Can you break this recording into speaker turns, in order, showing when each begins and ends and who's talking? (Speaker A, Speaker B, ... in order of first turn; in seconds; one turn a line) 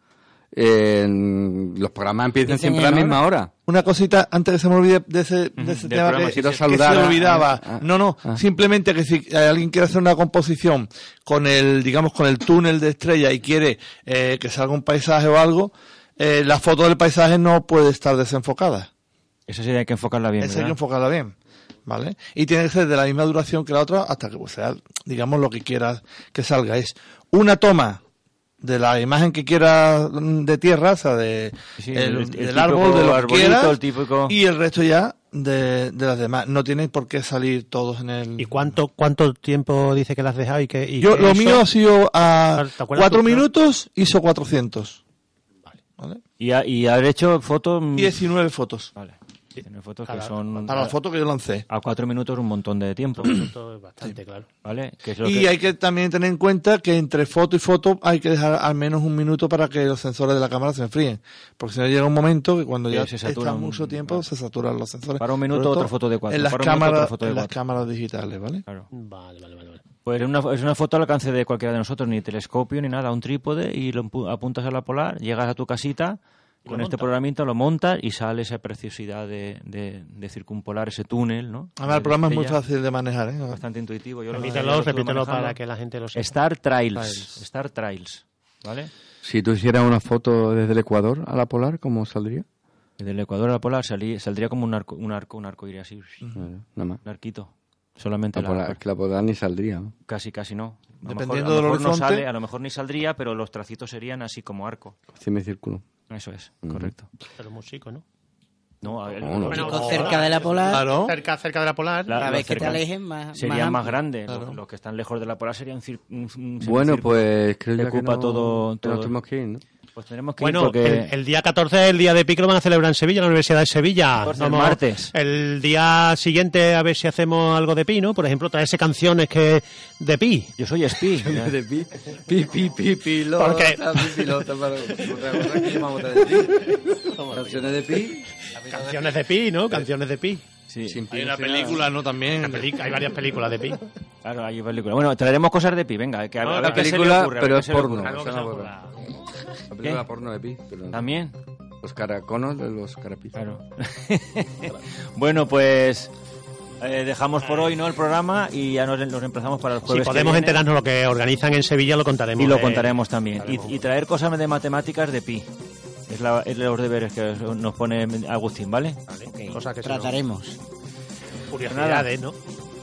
Speaker A: 0.5-3.5
Speaker B: 2.5-3.2
Speaker C: 3.7-18.9
Speaker D: 5.6-7.0
Speaker A: 6.2-8.4
Speaker D: 19.5-20.8
Speaker C: 20.4-21.3
Speaker C: 21.9-28.0
Speaker C: 28.6-38.6
Speaker D: 31.8-34.3
Speaker E: 38.4-41.6
Speaker C: 41.0-45.0
Speaker E: 42.6-43.5
Speaker D: 46.4-48.2
Speaker C: 48.0-48.9
Speaker D: 48.9-50.9
Speaker E: 50.1-50.3
Speaker C: 50.6-51.6
Speaker D: 51.7-53.5
Speaker E: 53.2-54.5
Speaker D: 54.6-55.5
Speaker C: 55.2-68.6
Speaker D: 62.9-64.2
Speaker D: 65.2-67.5
Speaker E: 68.9-69.8
Speaker D: 70.0-82.6
Speaker E: 76.7-77.1
Speaker C: 81.8-83.6
Speaker D: 83.5-85.6
Speaker E: 84.3-86.3
Speaker D: 86.1-88.9
Speaker C: 87.0-87.3
Speaker A: 89.2-92.4
Speaker D: 93.0-96.2
Speaker A: 96.3-97.0
Speaker D: 97.0-98.8
Speaker A: 98.3-99.9
Speaker D: 100.1-105.0
Speaker C: 101.0-102.2
Speaker A: 105.1-105.8
Speaker D: 106.1-107.1
Speaker A: 106.6-106.9
Speaker E: 107.4-108.0
Speaker D: 108.8-110.6
Speaker A: 109.2-109.8
Speaker E: 109.5-112.4
Speaker B: 109.6-111.0
Speaker C: 110.6-111.1
Speaker D: 112.1-117.2
Speaker B: 112.1-113.9
Speaker C: 114.3-114.6
Speaker A: 116.6-119.6
Speaker D: 117.7-119.1
Speaker D: 119.9-121.1
Speaker E: 120.4-130.5
Speaker D: 124.2-125.1
Speaker D: 130.6-131.5
Speaker A: 131.2-138.3
Speaker E: 133.4-134.2
Speaker E: 138.6-140.4
Speaker D: 140.7-141.0
Speaker A: 140.8-141.9
Speaker C: 141.1-143.1
Speaker E: 142.4-143.8
Speaker D: 144.2-148.2
Speaker E: 146.4-146.9
Speaker A: 146.5-148.7
Speaker E: 148.0-148.9
Speaker A: 149.7-151.1
Speaker D: 150.9-151.3
Speaker A: 151.8-153.3
Speaker D: 153.3-156.1
Speaker D: 156.8-160.6
Speaker E: 159.9-163.8
Speaker D: 162.4-165.5
Speaker D: 166.1-169.0
Speaker E: 169.1-170.2
Speaker B: 169.3-170.6
Speaker E: 171.5-172.3
Speaker D: 171.7-172.1